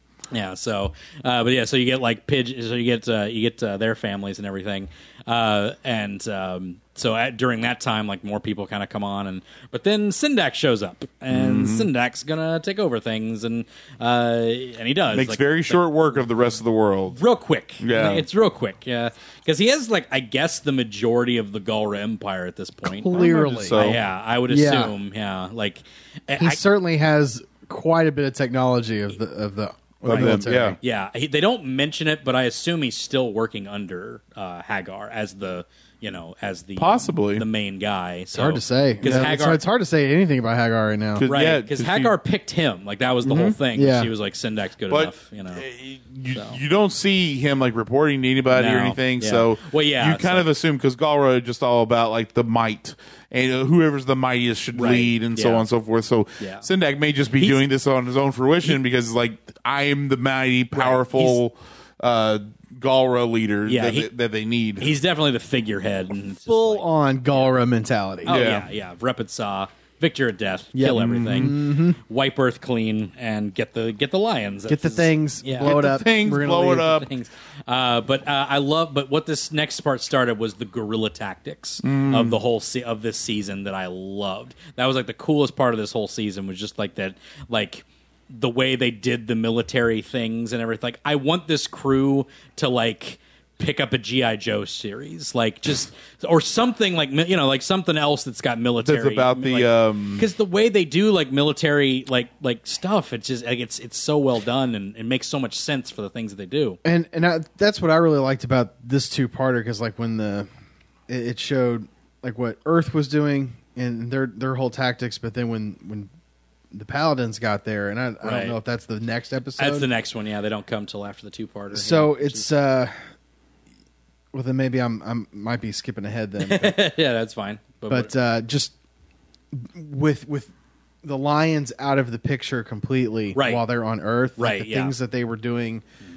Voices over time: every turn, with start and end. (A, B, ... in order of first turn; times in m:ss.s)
0:00.3-0:16.2 A
0:11.3-0:11.9 B
0:15.1-0:17.2 B
0:17.1-0:26.6 A
0:17.8-0:18.3 B
0:22.8-0:23.8 C
0:23.1-0:24.0 B
0:24.5-0:24.9 C
0:26.4-0:30.8 C
0:30.0-0:30.8 B
0:30.1-0:39.6 A
0:36.8-0:37.5 B
0:38.3-0:41.3 C
0:39.0-0:39.4 B
0:41.2-0:42.1 B
0:41.3-0:45.6 A
0:43.2-0:43.6 B
0:43.7-0:44.1 C
0:44.9-1:04.9 B
0:46.3-0:46.6 A
0:48.5-0:50.5 A
0:54.8-0:55.6 A
0:56.4-0:56.7 A
1:00.7-1:01.4 A
1:03.7-1:04.1 A
1:04.8-1:07.6 A
1:06.5-1:08.4 C
1:08.2-1:15.8 A
1:08.3-1:08.7 B
1:10.7-1:12.0 C
1:10.9-1:11.6 B
1:14.7-1:17.0 C
1:15.6-1:17.1 B
1:16.8-1:46.8 A
1:21.8-1:22.4 B
1:38.8-1:40.3 B
1:46.8-1:50.5 C
1:51.1-1:56.1 C
1:56.7-1:59.9 C
1:58.2-1:58.6 A
1:59.6-2:02.5 A
2:01.7-2:02.9 C
2:04.3-2:06.8 C
2:06.4-2:08.1 A
2:07.9-2:08.7 C
2:09.5-2:10.5 C
2:11.0-2:15.8 C
2:13.3-2:13.6 A
2:14.4-2:15.0 A